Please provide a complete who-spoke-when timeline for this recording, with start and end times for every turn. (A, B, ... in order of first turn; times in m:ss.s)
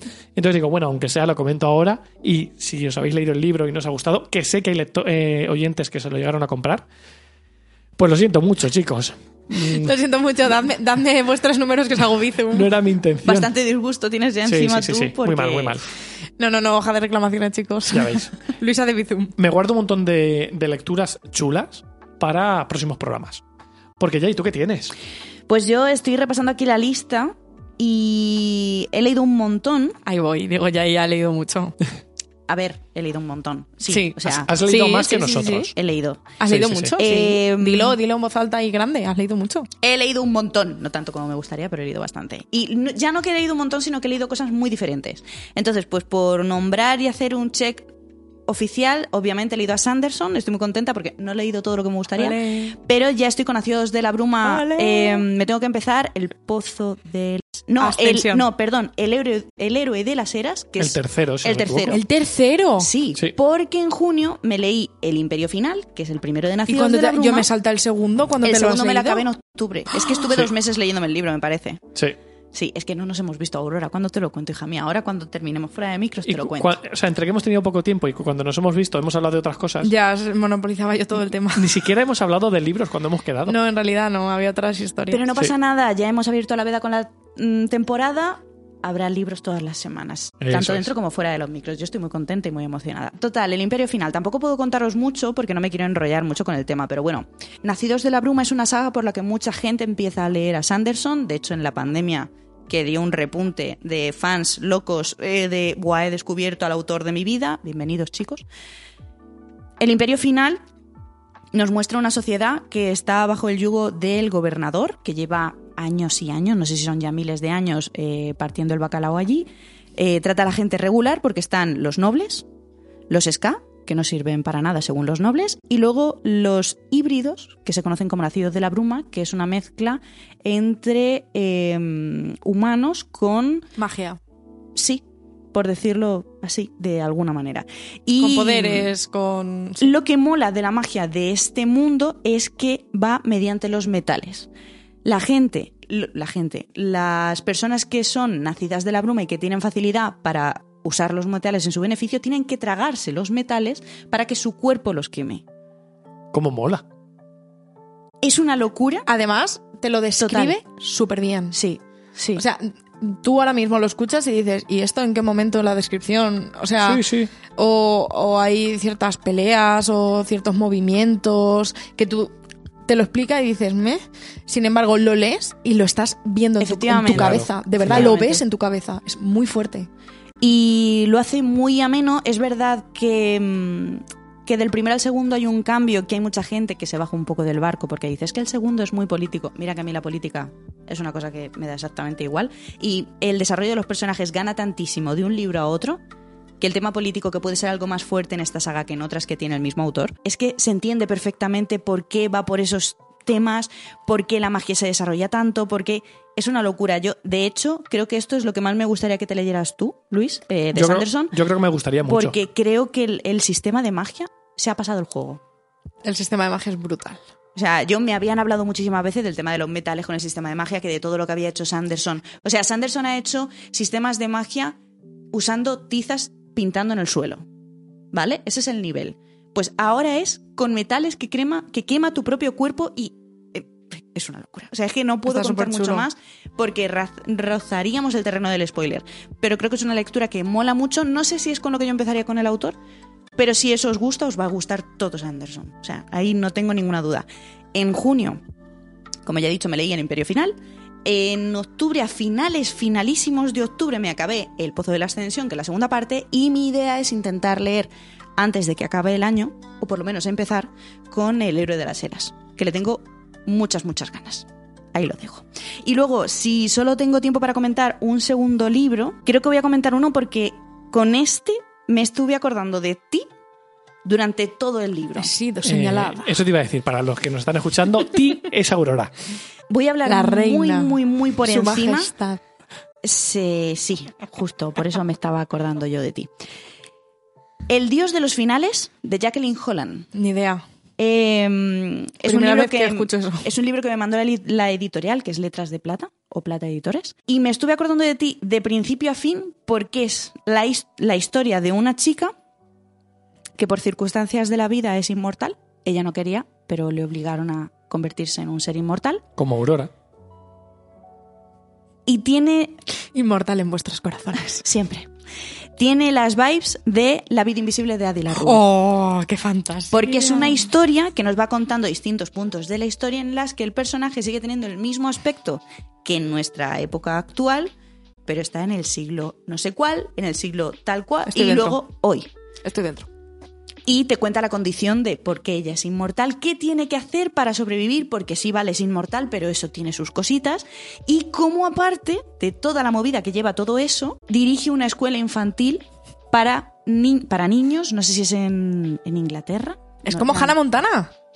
0:00.4-0:06.8 A
0:08.0-0:09.9 A
0:09.7-0:12.7 B
0:12.5-0:13.5 A
0:13.2-0:15.8 C
0:14.4-0:15.9 A
0:16.4-0:19.3 B
0:17.9-0:18.3 A
0:19.4-0:23.4 A
0:24.0-0:24.9 A
0:25.5-0:30.0 C
0:30.0-0:31.8 B
0:32.5-0:34.5 C
0:33.8-0:35.7 B
0:34.2-0:35.7 A
0:35.7-0:36.2 C
0:36.4-0:39.7 B
0:36.5-0:36.9 A
0:37.0-0:38.0 C
0:39.8-0:47.9 C
0:48.5-1:02.0 C
0:52.2-0:52.7 B
0:54.4-0:55.2 B
0:57.8-0:58.5 B
1:00.8-1:02.0 A
1:01.9-1:02.9 B
1:02.8-1:07.5 C
1:06.7-1:09.3 B
1:08.4-1:11.8 C
1:12.5-1:16.8 C
1:16.2-1:19.9 A
1:19.8-1:21.8 B
1:21.6-1:23.6 A
1:23.4-1:25.2 B
1:25.1-1:48.4 C
1:30.4-1:30.9 A
1:49.8-1:50.6 C
1:51.5-2:02.4 C
2:03.1-2:13.7 C
2:13.8-2:14.2 B
2:14.7-2:18.9 C
2:18.2-2:19.9 B
2:19.8-2:24.5 C
2:25.0-2:35.4 C
2:36.3-2:36.8 A
2:38.2-2:39.1 C
2:39.1-2:41.6 B
2:40.2-2:40.6 C
2:41.5-2:42.4 C
2:42.4-2:52.3 B
2:46.8-2:47.3 A
2:52.9-2:59.9 B
2:56.6-2:58.4 C
2:57.0-2:58.1 A
3:00.4-3:16.0 C
3:16.6-3:31.4 C
3:30.7-3:32.4 A
3:32.0-3:35.4 C
3:36.0-3:37.2 B
3:37.6-3:44.8 C
3:45.3-3:47.4 C
3:48.1-4:02.8 C
3:55.2-3:56.0 B
4:03.4-4:08.4 C
4:09.2-4:33.3 C
4:34.0-4:35.3 C
4:35.2-4:36.3 B
4:35.6-4:39.1 A
4:39.7-4:42.1 C
4:40.0-4:42.4 B
4:43.0-4:46.3 C
4:47.7-4:50.1 C
4:50.1-4:50.6 B
4:51.0-5:02.3 C
4:52.2-4:53.4 B
5:03.6-5:09.2 C
5:09.4-5:09.9 A
5:12.0-5:12.8 C
5:13.1-5:14.6 B
5:14.6-5:15.1 C
5:15.8-5:18.6 C
5:18.3-5:20.7 B
5:19.9-5:27.7 C
5:28.2-5:32.3 C
5:31.3-5:31.8 B
5:32.6-5:33.1 B
5:33.8-5:50.5 C
5:50.0-5:51.1 B